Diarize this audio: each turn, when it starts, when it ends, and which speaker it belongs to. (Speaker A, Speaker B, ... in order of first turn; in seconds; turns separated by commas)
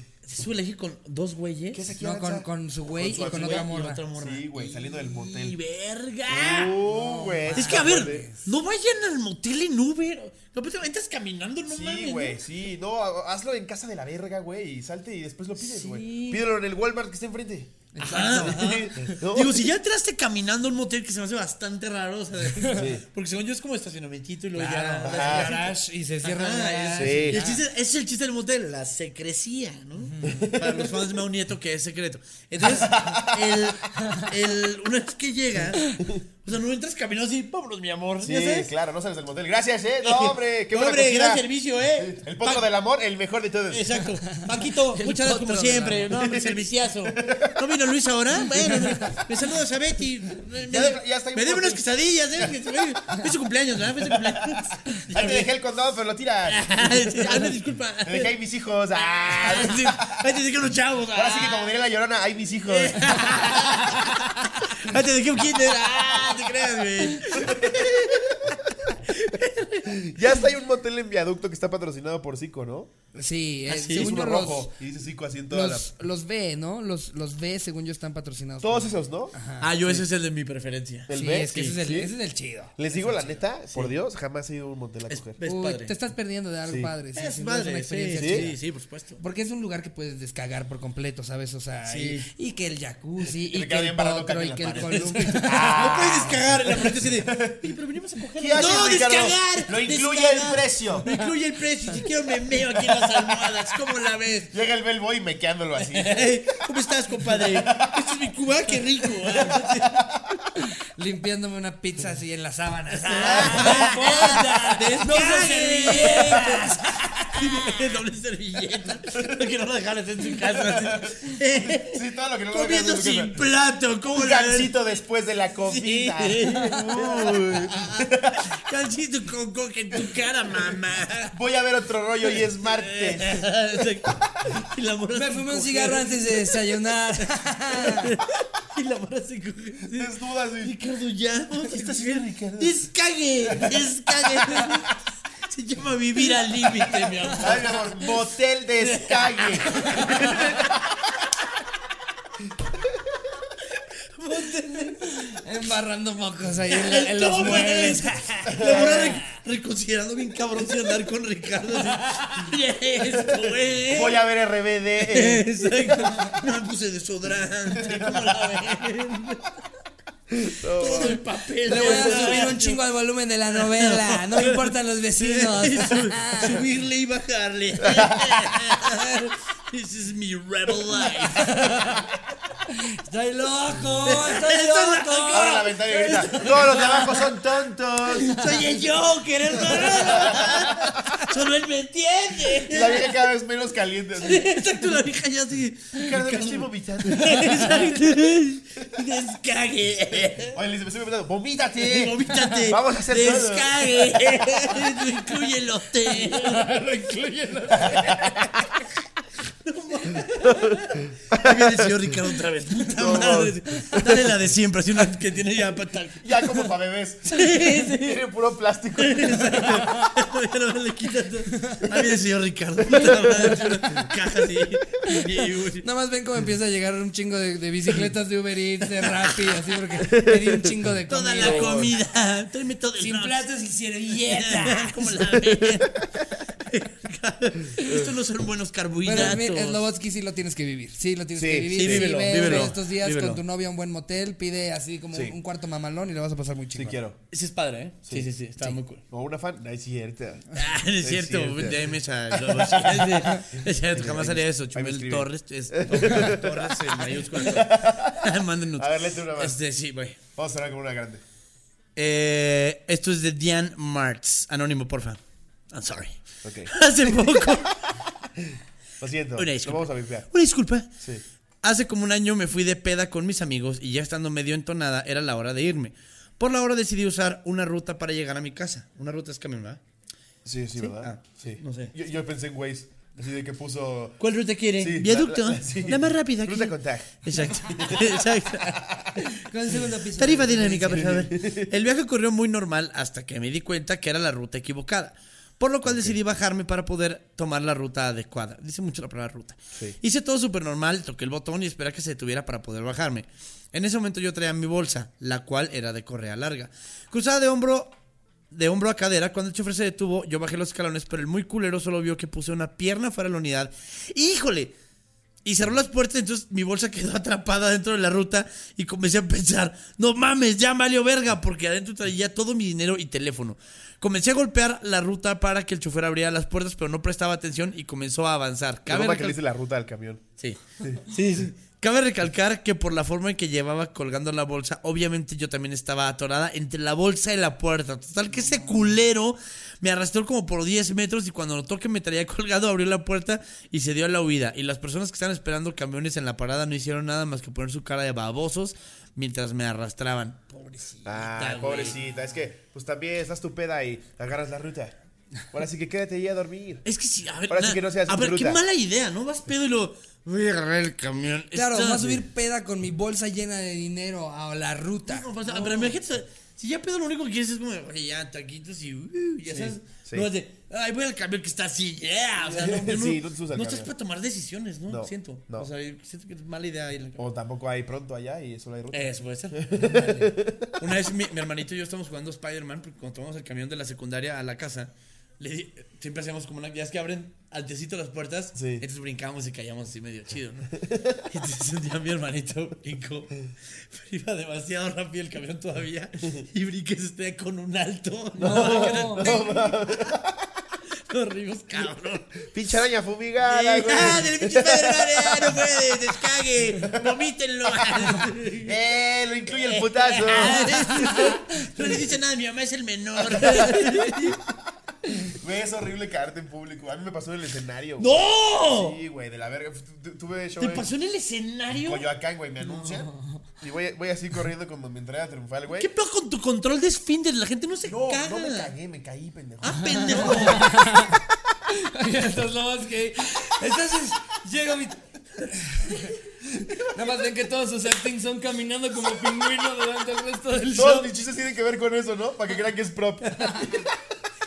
Speaker A: 0.2-1.9, Speaker B: 1.7-5.6, Speaker C: 2.0-4.0, Speaker A: 3.1-6.8, Speaker B: 6.3-8.3, Speaker C: 6.8-8.4, Speaker A: 7.5-12.4, Speaker B: 11.7-17.7, Speaker A: 15.6-16.4, Speaker C: 17.9-19.1, Speaker A: 18.0-38.7, Speaker B: 18.3-19.7, Speaker C: 22.5-22.9, Speaker B: 22.7-23.1, Speaker C: 24.6-27.6, Speaker B: 25.0-25.6, Speaker B: 26.9-27.4, Speaker C: 30.0-30.5, Speaker B: 30.2-31.2, Speaker B: 32.6-33.8, Speaker C: 34.0-34.3, Speaker B: 38.2-44.0, Speaker A: 40.0-42.7, Speaker A: 43.7-55.5, Speaker C: 44.4-46.1, Speaker B: 46.1-47.7, Speaker C: 48.7-49.1, Speaker B: 50.6-52.6, Speaker B: 54.0-60.2, Speaker A: 56.5-58.3, Speaker A: 59.1-61.7, Speaker B: 61.1-63.4, Speaker A: 62.7-70.3, Speaker B: 67.3-68.5, Speaker B: 69.9-72.9, Speaker C: 73.2-74.7, Speaker A: 73.7-74.1, Speaker B: 73.9-75.9, Speaker C: 75.5-79.7, Speaker B: 78.6-80.0, Speaker A: 79.6-81.8, Speaker B: 81.1-82.1, Speaker C: 81.1-83.4, Speaker B: 82.8-85.4, Speaker A: 85.1-85.9, Speaker C: 85.4-88.5, Speaker B: 86.7-86.9, Speaker A: 87.2-89.2, Speaker B: 88.2-88.5, Speaker C: 89.2-96.1, Speaker A: 91.9-92.3, Speaker B: 93.4-97.6, Speaker A: 94.8-104.5, Speaker B: 98.4-101.1, Speaker B: 102.5-103.8, Speaker B: 104.5-106.6, Speaker A: 105.8-110.1, Speaker B: 107.2-110.4, Speaker C: 110.6-117.9, Speaker A: 113.0-124.8, Speaker B: 113.3-113.8, Speaker B: 120.5-123.4, Speaker B: 124.1-128.5, Speaker A: 125.7-131.4, Speaker B: 129.9-130.8, Speaker B: 131.3-133.5, Speaker A: 132.2-148.2, Speaker C: 135.1-138.1, Speaker B: 139.9-140.8, Speaker B: 141.6-142.8, Speaker B: 143.5-144.8, Speaker C: 146.9-147.6, Speaker B: 147.3-150.8, Speaker A: 148.8-151.2, Speaker C: 150.0-150.4, Speaker A: 153.8-155.1, Speaker C: 155.0-158.4, Speaker A: 156.7-164.2, Speaker B: 158.5-159.2, Speaker C: 161.9-162.5, Speaker B: 163.9-165.5, Speaker A: 165.0-169.6, Speaker B: 167.7-168.6, Speaker B: 170.3-171.2, Speaker A: 170.7-172.8, Speaker C: 171.6-176.7, Speaker B: 171.7-172.4, Speaker A: 173.5-182.1, Speaker B: 177.8-178.7, Speaker C: 181.3-182.1, Speaker C: 182.7-185.7, Speaker A: 184.0-187.4, Speaker B: 185.3-188.6, Speaker A: 188.1-193.1, Speaker B: 189.6-191.2, Speaker B: 192.7-194.6, Speaker A: 194.2-200.6, Speaker B: 196.0-198.2, Speaker B: 200.4-204.5, Speaker A: 201.8-206.7, Speaker C: 202.3-202.7, Speaker C: 206.1-208.2, Speaker A: 207.7-208.9, Speaker B: 207.8-208.5, Speaker A: 209.6-216.7, Speaker B: 210.5-210.8, Speaker B: 211.3-211.9, Speaker B: 212.9-214.2, Speaker B: 216.2-219.9, Speaker A: 217.3-218.3, Speaker A: 219.0-225.9, Speaker C: 219.8-220.1, Speaker C: 221.5-221.8, Speaker B: 222.9-223.9, Speaker C: 225.0-231.9, Speaker A: 229.2-229.5, Speaker B: 230.0-230.7, Speaker A: 231.1-233.5, Speaker B: 231.4-232.0, Speaker C: 233.0-235.3, Speaker A: 234.2-236.0, Speaker B: 235.6-236.0, Speaker A: 236.5-239.9, Speaker C: 239.0-247.0, Speaker B: 241.4-242.7, Speaker A: 241.7-243.4, Speaker B: 245.1-245.4, Speaker B: 246.8-247.2, Speaker A: 247.3-249.0, Speaker B: 249.1-259.6, Speaker A: 250.5-260.2, Speaker B: 260.4-261.2, Speaker A: 262.0-265.2, Speaker A: 265.7-268.0, Speaker B: 266.4-267.7, Speaker B: 268.4-270.3, Speaker A: 269.4-270.9, Speaker A: 271.6-279.8, Speaker B: 280.4-284.2, Speaker A: 280.8-281.9, Speaker A: 284.2-307.9, Speaker B: 284.8-288.3, Speaker C: 289.2-291.3, Speaker B: 290.9-291.7, Speaker B: 295.9-296.2, Speaker A: 308.5-314.7, Speaker A: 315.4-329.4, Speaker B: 328.9-330.2, Speaker A: 330.4-352.0, Speaker B: 351.1-354.9, Speaker B: 355.5-356.9, Speaker A: 356.9-362.2, Speaker B: 357.5-358.6, Speaker C: 361.5-366.0, Speaker A: 365.1-377.2, Speaker B: 369.5-370.3, Speaker B: 372.4-373.9, Speaker B: 374.9-375.7, Speaker B: 377.2-380.9, Speaker A: 378.9-399.8, Speaker B: 388.6-388.9, Speaker B: 390.8-391.3, Speaker B: 398.4-400.5, Speaker C: 398.4-399.3, Speaker A: 401.1-402.5, Speaker B: 402.5-406.0, Speaker A: 403.4-408.8, Speaker B: 406.8-407.1, Speaker B: 407.7-411.1, Speaker A: 409.5-414.4, Speaker C: 410.7-411.4, Speaker B: 413.3-414.5, Speaker B: 415.3-420.9, Speaker A: 418.0-419.0, Speaker A: 420.6-422.1, Speaker B: 421.7-425.9, Speaker C: 422.6-423.4, Speaker A: 425.8-428.7, Speaker B: 427.9-430.8, Speaker A: 429.6-431.1, Speaker C: 429.7-441.1, Speaker B: 440.7-444.1, Speaker A: 443.3-443.7